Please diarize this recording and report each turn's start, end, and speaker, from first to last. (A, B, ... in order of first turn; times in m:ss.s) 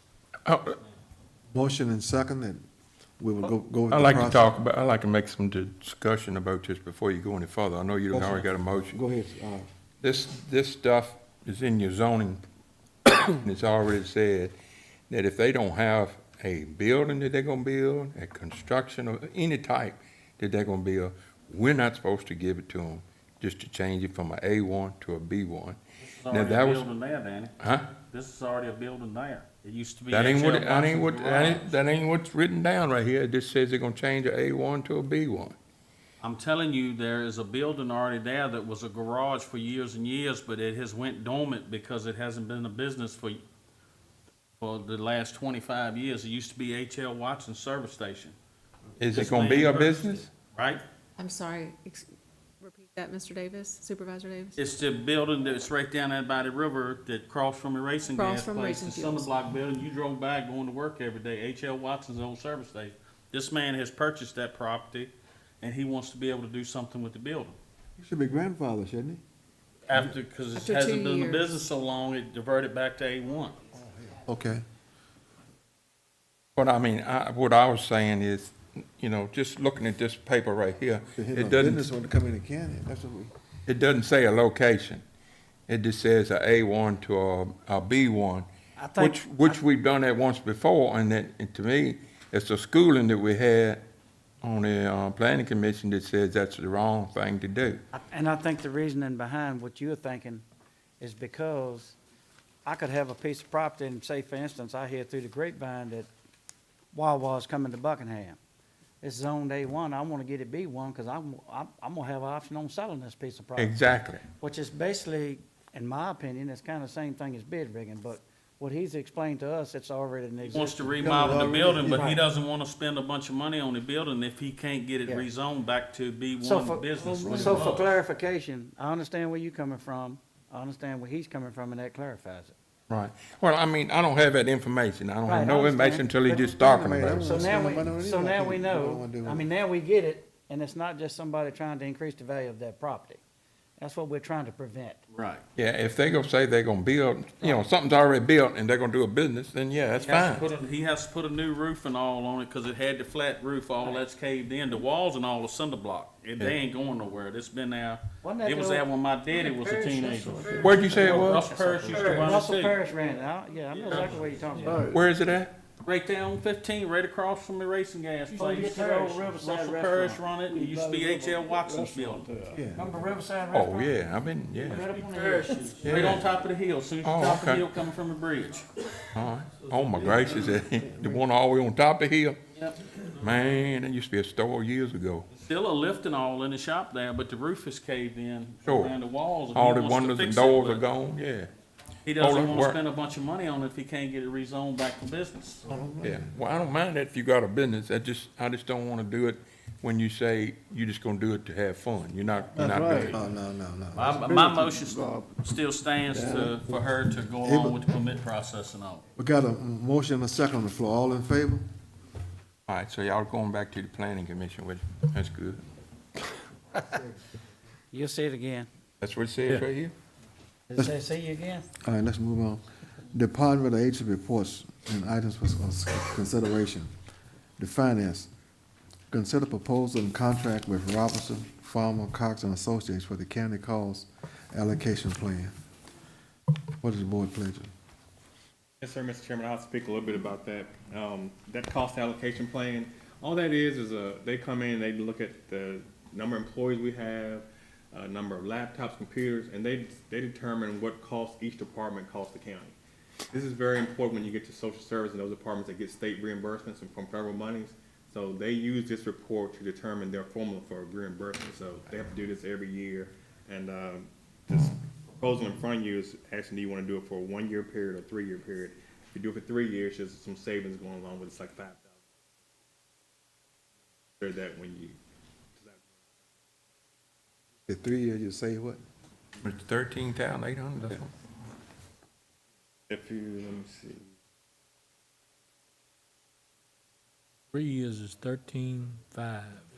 0:00.4-0:00.8 A
0:01.5-0:02.6 B
0:03.2-0:04.5 B
0:03.9-0:09.0 A
0:08.1-0:09.7 B
0:10.0-0:12.4 A
0:13.1-0:14.5 A
0:15.1-0:26.9 A
0:26.0-0:31.8 C
0:27.6-0:27.9 A
0:30.1-0:35.6 A
0:36.2-0:43.4 C
0:44.6-0:48.4 C
0:49.0-0:50.3 A
0:49.1-0:50.8 C
0:51.2-0:52.1 D
0:52.6-0:54.6 D
0:54.6-1:07.6 C
0:58.1-0:59.3 D
1:08.0-1:09.2 B
1:09.9-1:13.6 C
1:10.5-1:11.5 D
1:13.7-1:14.6 B
1:16.6-1:21.9 A
1:21.1-1:23.3 B
1:23.7-1:25.0 A
1:25.7-1:33.8 A
1:28.8-1:29.6 E
1:34.4-1:37.8 A
1:37.9-1:40.4 E
1:41.0-1:42.0 E
1:42.6-1:46.1 E
1:46.9-1:48.4 E
1:49.0-2:02.2 E
1:53.6-1:54.2 A
2:00.5-2:08.0 C
2:01.0-2:02.1 B
2:06.4-2:12.6 E
2:12.9-2:17.3 A
2:15.3-2:16.5 E
2:16.6-2:19.5 B
2:17.2-2:23.2 E
2:23.8-2:25.0 E
2:25.1-2:25.4 C
2:25.6-2:30.4 A
2:30.0-2:42.8 C
2:38.2-2:38.8 E
2:39.8-2:40.6 E
2:40.1-2:41.2 F
2:40.6-2:41.5 A
2:41.5-2:44.9 E
2:41.9-2:42.2 F
2:43.9-2:44.8 C
2:44.6-2:45.0 F
2:44.9-2:45.5 A
2:45.8-2:52.3 C
2:48.4-2:50.2 E
2:50.5-2:52.6 F
2:52.5-2:52.9 B
2:52.8-2:54.0 E
2:53.5-2:54.9 A
2:54.7-2:55.8 E
2:55.5-2:58.7 C
2:55.8-2:56.2 A
2:57.0-2:57.7 A
2:59.2-3:02.4 A
3:00.0-3:00.5 C
3:03.2-3:05.3 A
3:05.3-3:10.9 C
3:08.6-3:09.0 A
3:09.5-3:11.5 A
3:12.1-3:15.6 C
3:12.2-3:12.8 A
3:15.7-3:16.3 B
3:16.0-3:23.2 A
3:22.6-3:23.1 F
3:22.8-3:23.1 C
3:23.0-3:24.2 B
3:24.0-3:29.0 C
3:24.2-3:25.4 F
3:26.1-3:26.6 B
3:27.4-3:27.8 B
3:29.2-3:31.6 B
3:32.7-3:35.6 A
3:37.9-3:38.7 E
3:39.0-3:39.9 A
3:40.7-3:41.7 E
3:41.8-3:46.9 B
3:47.6-3:48.3 B
3:49.1-3:55.5 B
3:56.8-3:57.7 B
3:58.8-4:12.8 G
4:13.3-4:32.0 G
4:34.2-4:35.0 G
4:35.6-4:35.8 G
4:37.7-4:38.8 B
4:39.4-4:41.1 A
4:42.9-4:44.1 G
4:47.5-4:49.5 F